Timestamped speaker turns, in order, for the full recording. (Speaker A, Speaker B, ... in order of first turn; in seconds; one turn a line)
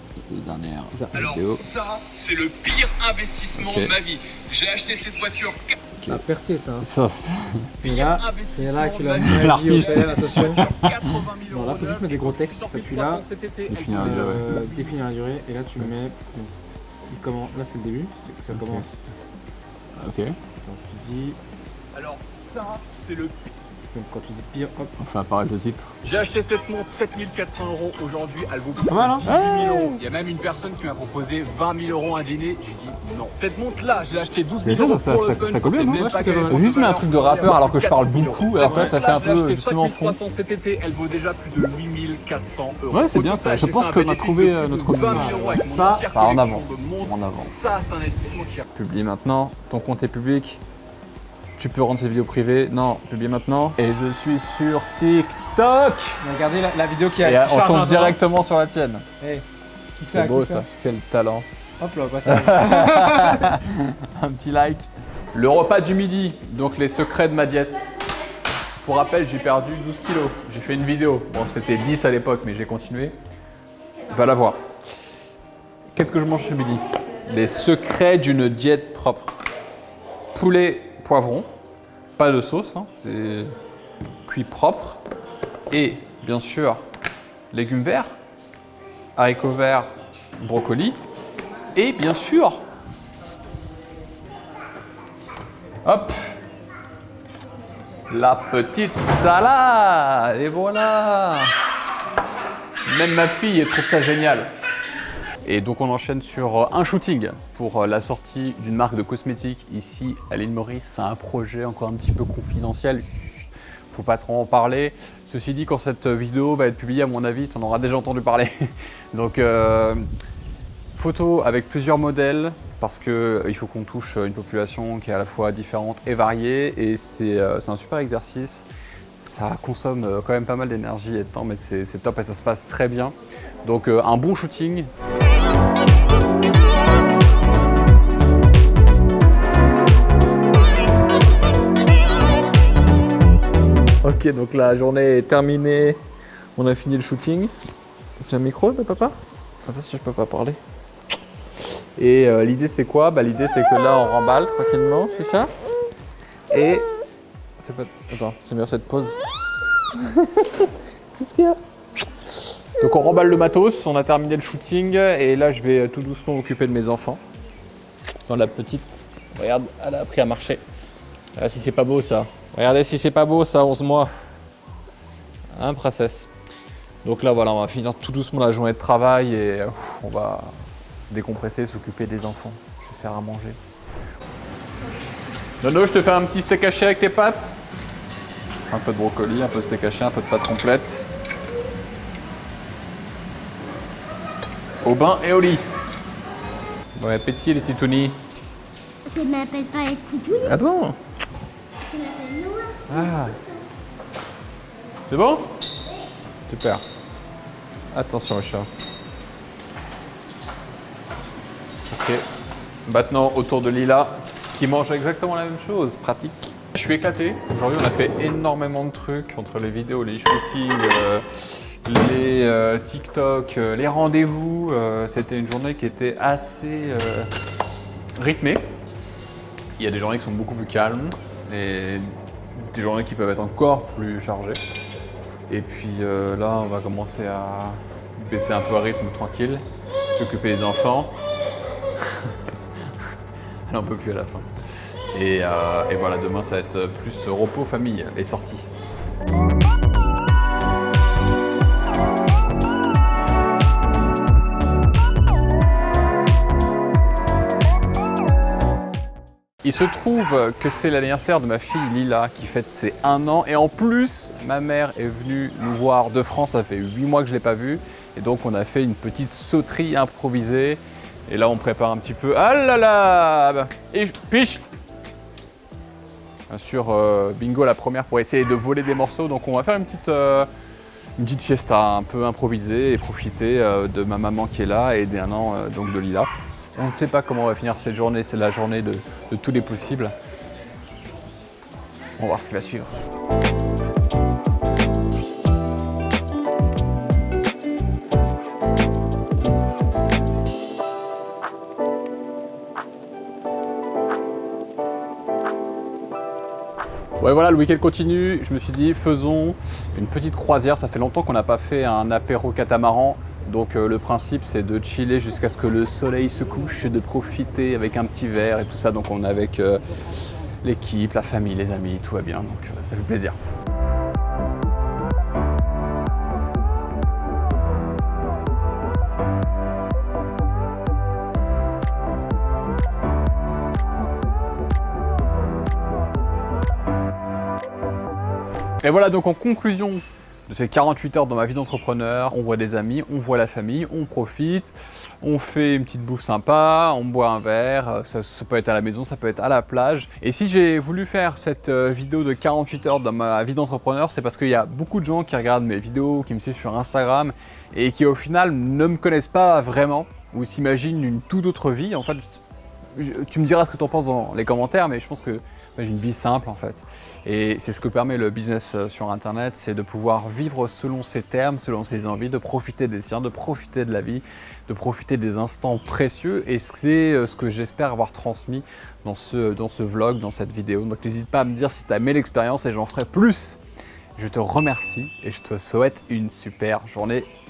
Speaker A: 0.3-1.7
Speaker B: 0.9-1.2
Speaker C: 1.1-5.9
Speaker A: 3.5-4.0
Speaker B: 6.0-6.9
Speaker A: 6.8-7.8
Speaker C: 7.8-15.1
Speaker B: 7.8-10.7
Speaker A: 9.2-11.2
Speaker B: 11.5-13.2
Speaker A: 13.7-14.5
Speaker B: 13.9-16.5
Speaker B: 17.1-18.9
Speaker A: 18.5-18.9
Speaker A: 20.0-20.4
Speaker B: 20.6-21.4
Speaker C: 21.9-23.5
Speaker B: 23.9-24.9
Speaker A: 25.0-26.1
Speaker C: 26.0-48.6
Speaker B: 28.9-29.3
Speaker A: 29.2-30.0
Speaker A: 34.6-40.2
Speaker B: 36.1-36.6
Speaker A: 42.9-47.6
Speaker B: 45.0-45.8
Speaker A: 48.7-50.6
Speaker A: 51.6-56.2
Speaker B: 56.2-58.2
Speaker A: 57.2-59.0
Speaker B: 60.0-60.6
Speaker A: 60.1-61.5
Speaker B: 61.8-63.6
Speaker A: 62.2-67.9
Speaker A: 68.8-73.2
Speaker A: 74.1-74.6
Speaker A: 75.9-79.4
Speaker A: 80.3-81.5
Speaker A: 82.2-83.5
Speaker A: 84.2-85.0
Speaker A: 85.7-86.8
Speaker A: 87.5-88.1
Speaker A: 89.2-91.0
Speaker A: 91.7-92.6
Speaker A: 95.8-96.2
Speaker A: 98.1-101.5
Speaker A: 102.8-104.5
Speaker A: 105.4-118.5
Speaker A: 119.1-120.0
Speaker A: 120.9-128.7
Speaker A: 129.2-134.9
Speaker A: 144.0-146.0
Speaker A: 146.6-147.5
Speaker A: 148.2-150.6
Speaker A: 152.0-155.5
Speaker A: 156.5-156.9
Speaker A: 157.6-159.2
Speaker A: 160.0-161.6
Speaker A: 162.8-167.2
Speaker A: 168.3-170.6
Speaker A: 171.3-174.1
Speaker A: 175.5-176.3
Speaker A: 177.0-180.5
Speaker A: 181.1-183.6
Speaker A: 185.6-187.6
Speaker A: 188.7-191.1
Speaker A: 194.8-195.6
Speaker A: 197.0-198.2
Speaker D: 199.1-200.3
Speaker A: 200.2-201.0
Speaker D: 201.9-202.8
Speaker A: 202.8-203.4
Speaker A: 205.1-205.5
Speaker A: 206.5-206.8
Speaker A: 207.9-208.7
Speaker A: 211.9-212.2
Speaker A: 212.8-227.3
Speaker A: 228.2-228.6
Speaker A: 229.8-234.6
Speaker A: 235.5-241.1
Speaker A: 243.7-244.5
Speaker A: 245.1-248.7
Speaker A: 259.6-274.7
Speaker A: 276.5-280.5
Speaker A: 281.2-290.1
Speaker A: 292.2-293.0
Speaker A: 307.2-319.8
Speaker A: 320.6-323.4
Speaker A: 338.8-362.4
Speaker A: 362.9-383.6
Speaker A: 384.1-387.3